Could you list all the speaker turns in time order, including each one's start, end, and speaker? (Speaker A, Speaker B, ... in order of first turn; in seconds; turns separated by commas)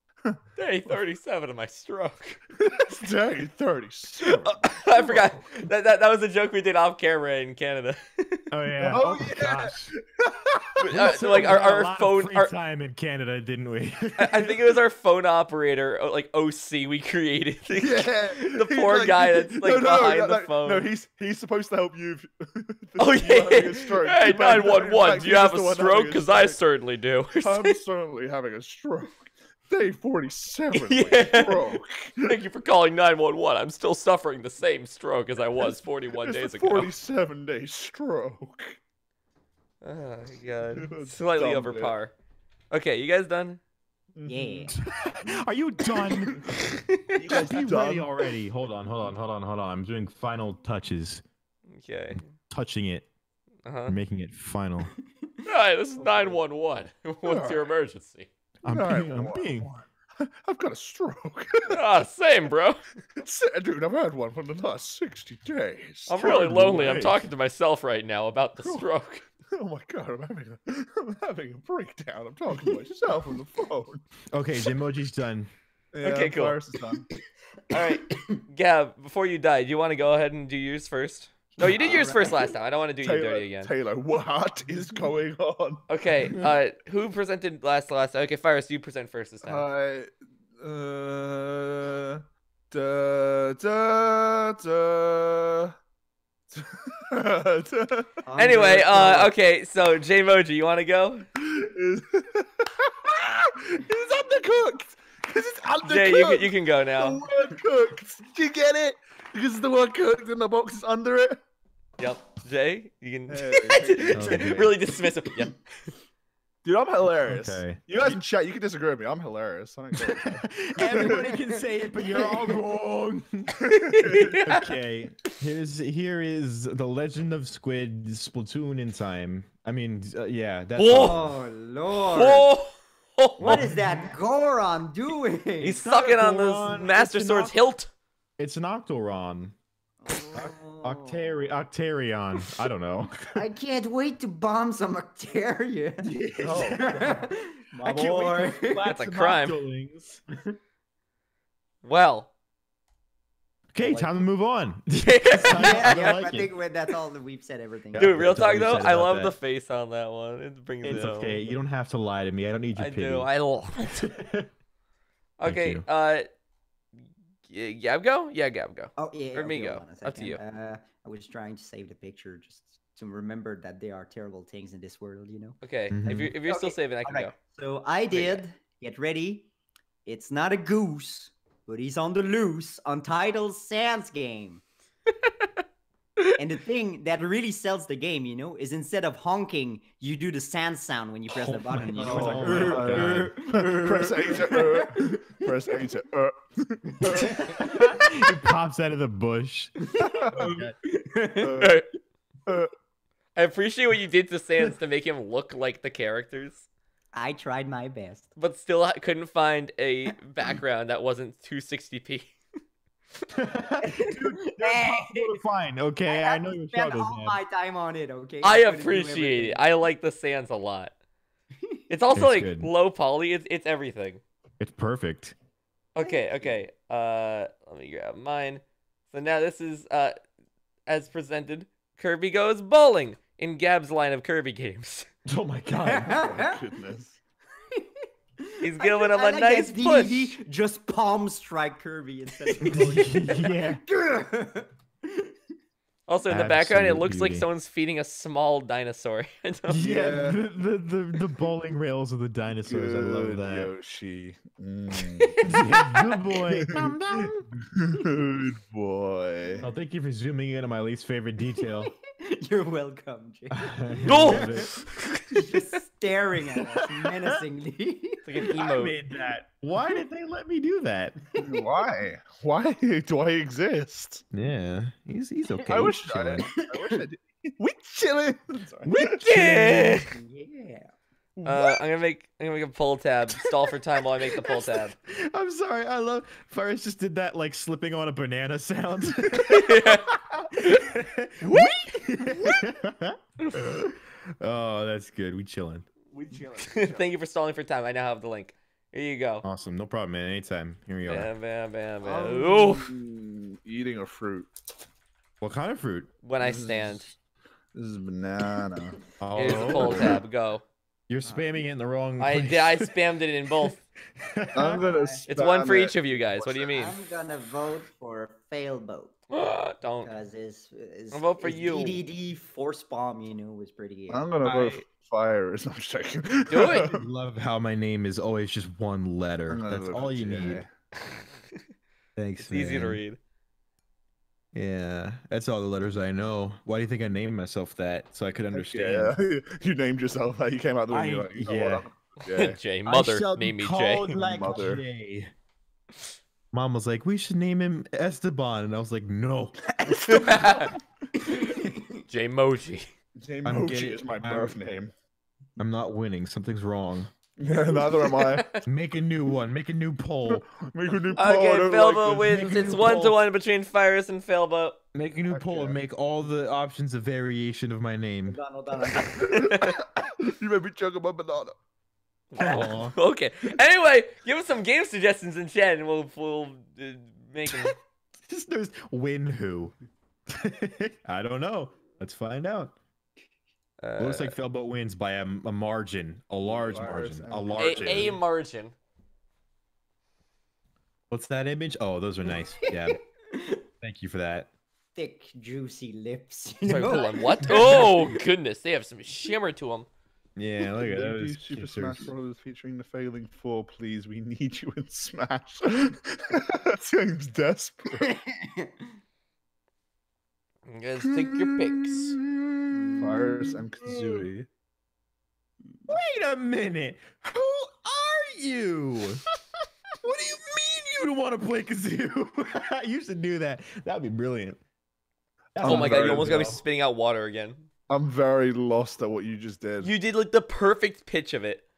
Speaker A: 0.6-2.4, Speaker B: 2.6-5.3, Speaker A: 4.2-8.4, Speaker C: 8.5-9.9, Speaker B: 8.8-10.7, Speaker A: 10.8-12.5, Speaker C: 10.8-14.6, Speaker A: 14.2-20.9, Speaker B: 17.8-26.6, Speaker A: 23.0-27.7, Speaker B: 27.4-32.4, Speaker A: 30.7-36.9, Speaker B: 35.6-38.8, Speaker A: 39.8-42.1, Speaker B: 40.8-41.9, Speaker A: 42.7-43.6, Speaker B: 44.1-44.7, Speaker D: 44.2-44.7, Speaker C: 44.7-51.2, Speaker B: 47.1-48.1, Speaker A: 51.7-52.3, Speaker C: 52.4-53.1, Speaker A: 53.6-54.0, Speaker C: 53.9-54.9, Speaker A: 55.4-58.3, Speaker B: 57.2-57.6, Speaker C: 58.6-59.7, Speaker B: 58.7-61.8, Speaker A: 61.7-62.8, Speaker B: 63.1-66.2, Speaker A: 66.1-69.2, Speaker C: 66.2-67.3, Speaker B: 69.5-74.0, Speaker C: 74.3-75.5, Speaker B: 75.9-77.1, Speaker A: 76.0-76.6, Speaker A: 77.7-83.7, Speaker D: 77.9-78.4, Speaker D: 81.6-82.5, Speaker B: 83.0-85.8, Speaker A: 85.9-89.6, Speaker B: 89.4-95.7, Speaker B: 96.5-98.2, Speaker D: 98.2-99.3, Speaker A: 98.4-101.2, Speaker B: 101.4-111.4, Speaker A: 105.8-107.2, Speaker A: 112.0-115.6, Speaker B: 113.3-114.6, Speaker C: 114.1-114.8, Speaker B: 116.6-121.3, Speaker C: 117.3-118.2, Speaker C: 119.9-123.7, Speaker D: 120.8-122.5, Speaker B: 123.7-124.4, Speaker A: 123.7-124.7, Speaker C: 124.3-131.4, Speaker A: 130.8-131.2, Speaker D: 130.9-132.5, Speaker A: 131.9-133.7, Speaker C: 133.4-134.1, Speaker D: 133.4-135.8, Speaker A: 135.6-137.9, Speaker C: 135.7-137.6, Speaker C: 138.4-139.6, Speaker D: 140.0-141.5, Speaker C: 140.3-143.4, Speaker D: 143.3-148.9, Speaker C: 146.0-147.3, Speaker B: 146.4-146.9, Speaker C: 147.8-150.2, Speaker A: 148.8-149.6, Speaker A: 151.8-152.3, Speaker C: 153.7-156.5, Speaker D: 153.8-154.2, Speaker A: 154.9-156.3, Speaker D: 155.4-158.4, Speaker C: 157.9-159.3, Speaker A: 157.9-161.4, Speaker C: 160.8-163.3, Speaker A: 162.7-164.1, Speaker C: 164.0-164.5, Speaker A: 165.4-166.3, Speaker C: 165.4-165.8, Speaker A: 167.5-170.4, Speaker D: 169.0-179.5, Speaker A: 175.6-177.3, Speaker C: 175.9-176.3, Speaker A: 178.1-178.4, Speaker D: 180.0-184.6, Speaker A: 185.2-185.5, Speaker D: 186.4-195.8, Speaker C: 191.3-193.4, Speaker B: 191.9-197.6, Speaker D: 197.0-198.3, Speaker C: 197.1-200.7, Speaker D: 199.8-201.7, Speaker B: 200.0-200.6, Speaker B: 201.4-201.8, Speaker A: 201.6-201.9, Speaker A: 203.3-206.7, Speaker D: 207.1-208.3, Speaker A: 208.4-212.4, Speaker C: 213.3-217.4, Speaker D: 213.8-215.4, Speaker D: 216.1-219.6, Speaker A: 218.4-220.9, Speaker A: 221.9-224.2, Speaker C: 222.1-222.7, Speaker C: 224.6-225.3, Speaker A: 225.9-230.2, Speaker D: 226.0-226.6, Speaker A: 230.9-235.1, Speaker C: 235.2-236.4, Speaker D: 235.8-236.6, Speaker B: 236.1-237.2, Speaker D: 237.7-245.3, Speaker A: 238.6-240.4, Speaker C: 242.6-243.8, Speaker A: 246.1-249.8, Speaker C: 246.3-247.5, Speaker C: 249.7-253.7, Speaker B: 249.8-250.4, Speaker B: 252.7-255.3, Speaker A: 255.3-255.8, Speaker C: 255.4-257.6, Speaker B: 256.6-259.6, Speaker C: 259.6-261.9, Speaker D: 261.6-264.7, Speaker C: 263.5-264.7, Speaker A: 264.1-265.6, Speaker D: 265.3-268.2, Speaker A: 268.2-269.0, Speaker C: 268.4-271.2, Speaker D: 271.3-271.9, Speaker B: 271.4-274.2, Speaker C: 274.3-276.5, Speaker D: 275.5-277.0, Speaker B: 275.7-279.2, Speaker C: 278.8-280.1, Speaker A: 278.9-280.1, Speaker D: 280.1-280.9, Speaker A: 281.4-284.9, Speaker C: 285.1-295.9, Speaker A: 289.4-290.9, Speaker A: 291.4-292.2, Speaker B: 296.1-297.1, Speaker A: 296.6-299.4, Speaker C: 299.4-301.3, Speaker A: 301.1-302.9, Speaker B: 302.0-304.5, Speaker C: 305.4-306.1, Speaker A: 306.2-307.1, Speaker B: 306.4-307.1, Speaker B: 307.7-309.0, Speaker C: 309.2-310.2, Speaker A: 309.4-310.6, Speaker B: 309.6-310.0, Speaker C: 311.1-312.9, Speaker D: 311.2-311.6, Speaker A: 312.2-313.8, Speaker C: 313.6-314.8, Speaker B: 314.5-316.5, Speaker D: 314.6-315.2, Speaker A: 315.3-316.9, Speaker D: 316.5-319.2, Speaker A: 319.3-320.1, Speaker D: 320.0-324.2, Speaker A: 321.1-322.0, Speaker B: 324.1-327.0, Speaker A: 324.4-324.8, Speaker A: 326.5-326.9, Speaker C: 326.7-330.6, Speaker B: 329.5-330.7, Speaker C: 332.1-333.0, Speaker A: 332.4-333.2, Speaker C: 334.5-339.1, Speaker B: 338.5-342.6, Speaker C: 340.9-341.9, Speaker A: 342.2-344.1, Speaker C: 342.9-345.3, Speaker B: 344.1-344.8, Speaker C: 346.5-350.5, Speaker D: 349.9-350.2, Speaker A: 350.0-350.7, Speaker D: 351.2-352.0, Speaker A: 352.1-352.9, Speaker B: 353.2-354.9, Speaker C: 353.4-354.8, Speaker C: 355.6-357.1, Speaker B: 357.4-358.5, Speaker A: 357.7-358.6, Speaker C: 358.6-360.4, Speaker B: 360.3-362.8, Speaker A: 361.2-364.8, Speaker C: 362.2-363.2, Speaker C: 364.9-368.4, Speaker B: 365.3-365.8, Speaker D: 368.3-369.6, Speaker B: 369.0-371.5, Speaker A: 369.1-369.8, Speaker A: 372.3-377.8, Speaker C: 372.4-372.9, Speaker C: 378.3-379.8, Speaker C: 380.3-382.8, Speaker A: 383.8-384.4, Speaker C: 384.0-388.2, Speaker B: 386.4-388.1, Speaker A: 387.6-388.7, Speaker C: 391.1-393.0, Speaker D: 392.3-393.6, Speaker C: 393.8-394.5, Speaker D: 394.9-397.8, Speaker A: 396.6-399.9, Speaker C: 397.5-398.0, Speaker C: 400.4-402.1, Speaker B: 400.6-408.1, Speaker D: 408.0-408.9, Speaker A: 410.7-412.2, Speaker C: 411.1-414.3, Speaker D: 412.7-413.2, Speaker B: 413.0-414.5, Speaker C: 415.9-419.2, Speaker C: 420.0-424.6, Speaker C: 425.5-426.6, Speaker B: 425.6-426.6, Speaker A: 425.6-427.7, Speaker B: 427.9-429.9, Speaker A: 429.8-431.6